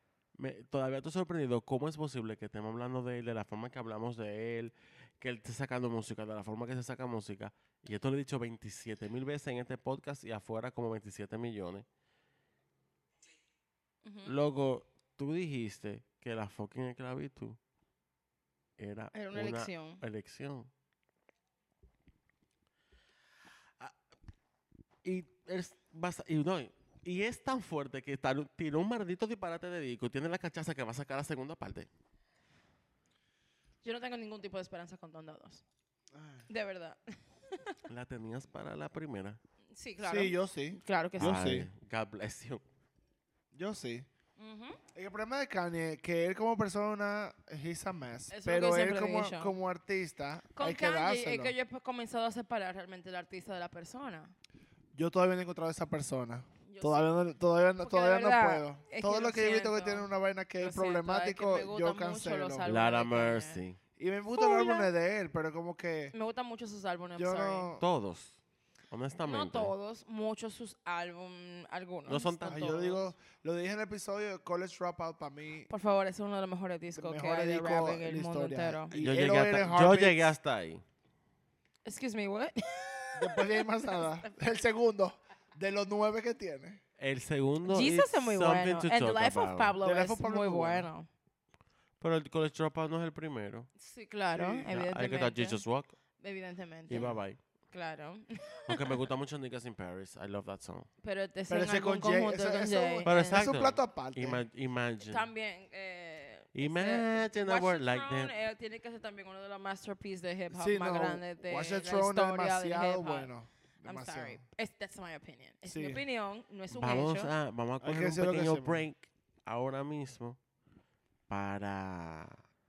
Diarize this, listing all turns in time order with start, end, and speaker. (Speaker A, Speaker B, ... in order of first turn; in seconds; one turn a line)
Speaker A: 0.3-11.8
Speaker B: 14.0-14.3
Speaker A: 14.2-17.6
Speaker A: 18.8-20.7
Speaker B: 19.1-20.0
Speaker A: 25.0-31.9
Speaker B: 33.8-35.6
Speaker C: 36.1-36.5
Speaker B: 36.5-37.8
Speaker A: 37.9-39.4
Speaker B: 39.7-41.4
Speaker C: 40.0-41.7
Speaker A: 41.2-42.6
Speaker C: 43.5-44.1
Speaker B: 44.4-44.8
Speaker C: 44.9-51.5
Speaker B: 48.3-49.5
Speaker B: 50.5-54.3
Speaker C: 54.9-62.7
Speaker B: 56.6-57.1
Speaker B: 57.8-60.1
Speaker B: 60.6-63.6
Speaker A: 62.6-63.8
Speaker C: 64.0-66.1
Speaker B: 64.3-64.9
Speaker B: 66.1-67.7
Speaker C: 67.2-67.8
Speaker A: 67.8-68.4
Speaker A: 68.9-69.7
Speaker B: 69.2-73.1
Speaker A: 72.1-72.8
Speaker C: 72.5-75.7
Speaker B: 75.7-79.0
Speaker C: 76.9-80.2
Speaker A: 78.9-80.8
Speaker B: 81.8-84.3
Speaker C: 83.2-86.8
Speaker A: 87.0-89.8
Speaker B: 87.6-91.1
Speaker C: 89.8-90.9
Speaker A: 92.0-93.7
Speaker B: 93.8-95.6
Speaker C: 94.3-94.6
Speaker A: 94.7-95.9
Speaker B: 96.2-97.1
Speaker A: 96.9-97.4
Speaker C: 96.9-97.2
Speaker B: 97.7-99.0
Speaker A: 98.7-100.9
Speaker B: 101.0-103.5
Speaker C: 101.5-104.4
Speaker A: 103.0-105.3
Speaker B: 105.1-113.3
Speaker A: 106.5-108.3
Speaker C: 110.5-114.4
Speaker B: 113.8-117.3
Speaker C: 115.7-116.0
Speaker A: 116.7-120.4
Speaker C: 117.8-118.8
Speaker A: 121.3-122.4